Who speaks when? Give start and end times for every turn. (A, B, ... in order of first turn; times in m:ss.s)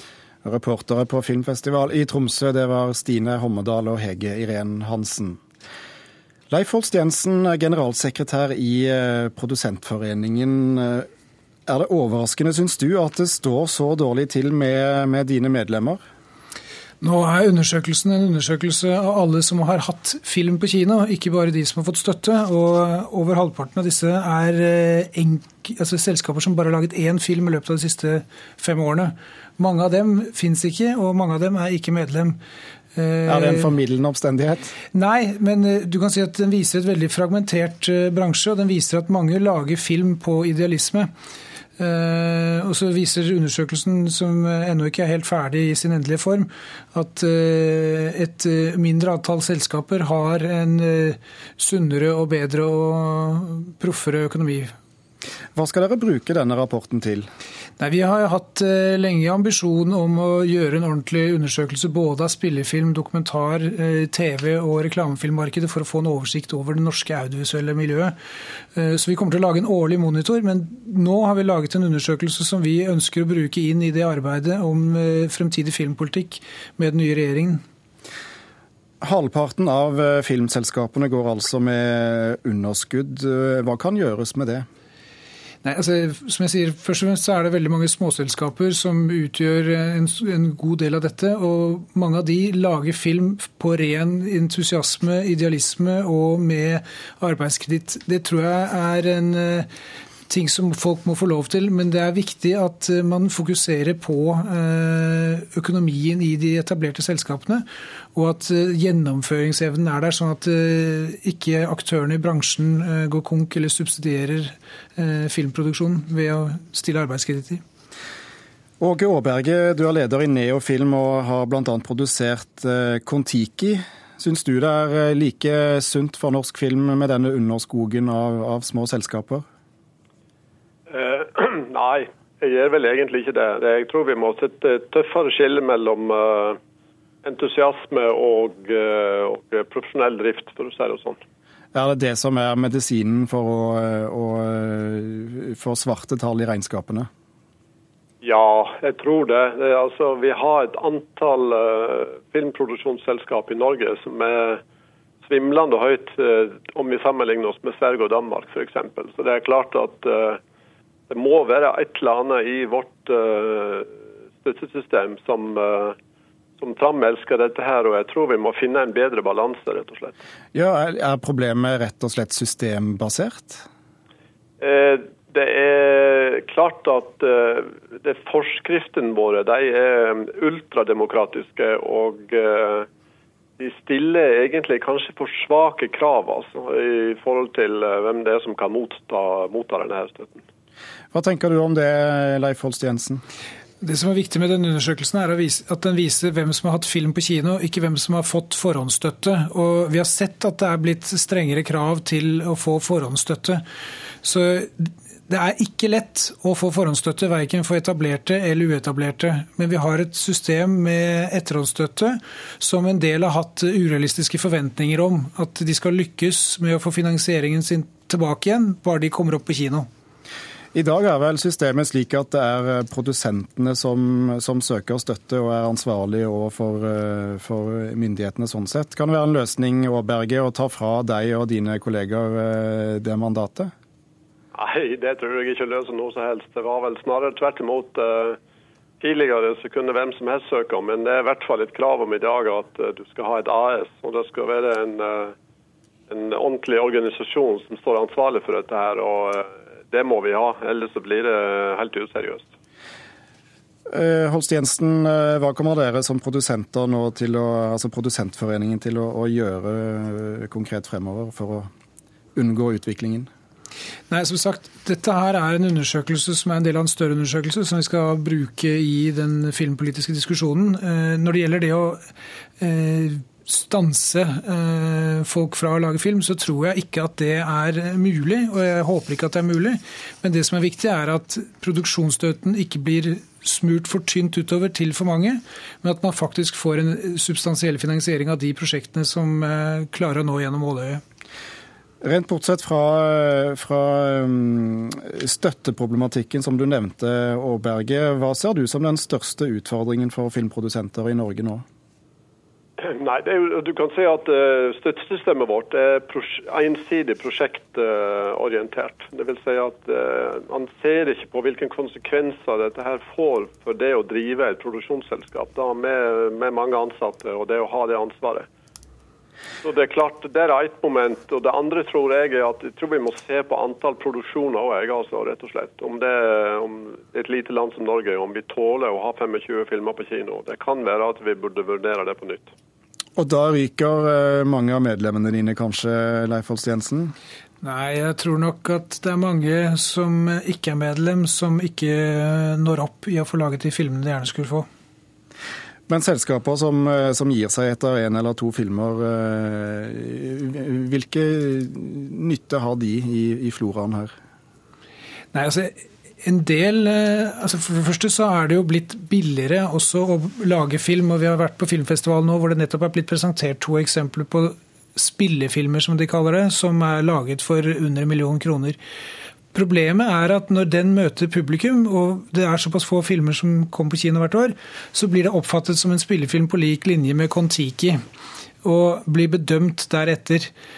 0:00.4-0:05.4 A
0:06.5-0:11.1 A
0:11.7-0:16.0 A
0:17.0-0:32.4 B
0:32.9-0:33.7 B
0:33.3-0:34.7 A
0:34.9-0:41.1 B
0:41.8-0:54.8 B
0:55.6-0:57.3 A
0:57.8-1:08.2 B
1:08.8-1:17.6 B
1:19.0-1:24.7 A
1:25.6-1:39.7 B
1:40.3-1:57.6 B
1:58.8-2:09.4 A
2:10.9-2:16.6 C
2:17.2-2:21.2 C
2:21.7-2:27.1 A
2:28.2-2:34.6 C
2:35.2-2:40.4 C
2:41.1-2:43.9 C
2:44.4-2:46.0 C
2:46.6-2:50.1 C
2:50.5-2:53.6 A
2:54.6-3:02.9 C
3:03.6-3:10.4 C
3:11.1-3:13.2 A
3:13.8-3:23.6 B
3:24.2-3:39.9 B
3:40.7-3:53.7 A
3:54.5-3:58.4 C
3:59.0-4:05.3 C
4:06.1-4:12.5 C
4:13.9-4:21.7 A
4:22.4-4:23.3 A
4:24.1-4:32.0 B
4:32.6-4:51.0 B
4:52.0-5:01.6 A
5:02.8-5:18.5 C
5:19.6-5:32.5 C
5:33.2-5:37.1 A
5:37.6-5:44.7 B
5:45.9-5:54.1 A
5:55.3-6:08.8 B
6:09.5-6:18.0 B
6:18.6-6:20.5 B